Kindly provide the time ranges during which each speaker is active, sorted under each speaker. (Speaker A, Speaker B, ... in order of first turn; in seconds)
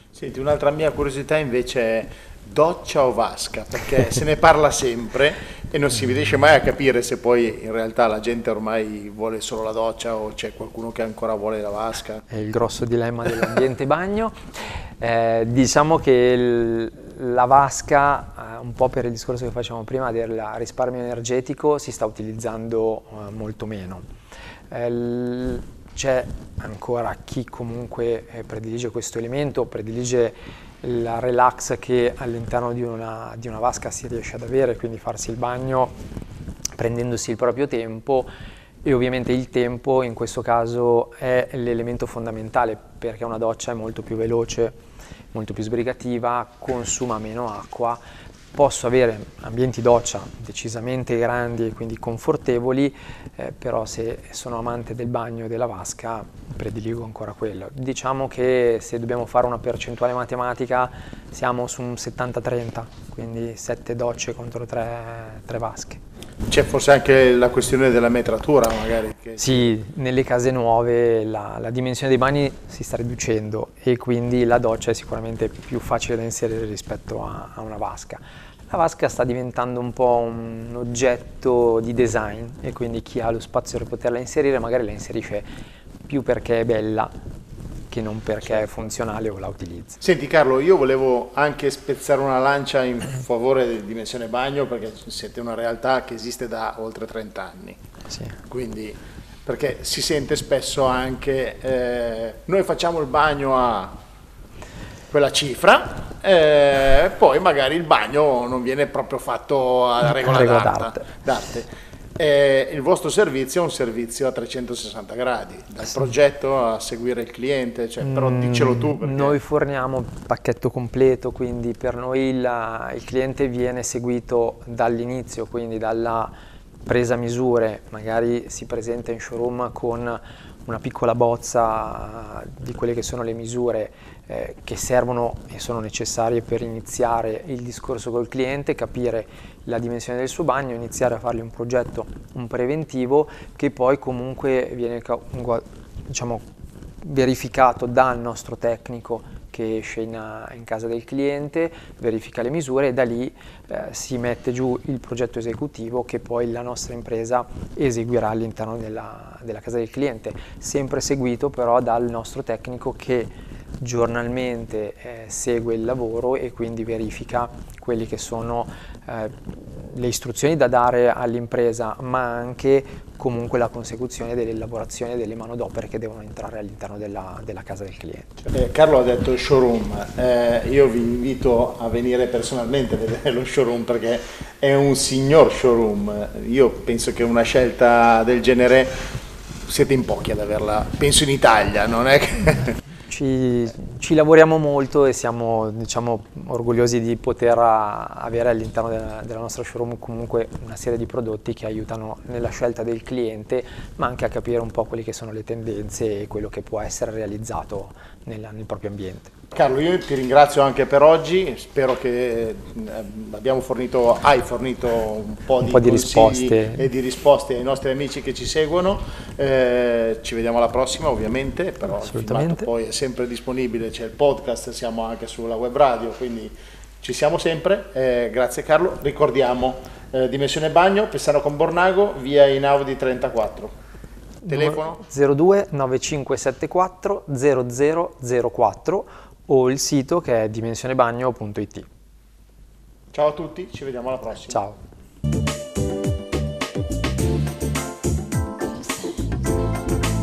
Speaker A: 0.1-12.2, 66.5-69.7, 90.0-97.8, 98.5-103.9, 105.1-119.4, 178.5-189.0, 189.7-192.8, 209.5-233.7, 234.5-235.0, 243.1-244.6
Speaker B: 12.3-24.1, 24.7-36.0, 36.8-38.3, 38.8-44.8, 45.3-48.0, 48.5-66.0, 69.4-85.5, 86.0-87.1, 87.9-90.0, 98.1-98.4, 110.0-111.1, 118.0-126.3, 126.8-146.4, 147.0-178.5, 193.1-209.3, 215.6-216.9, 222.0-222.7, 234.4-241.9, 244.5-244.8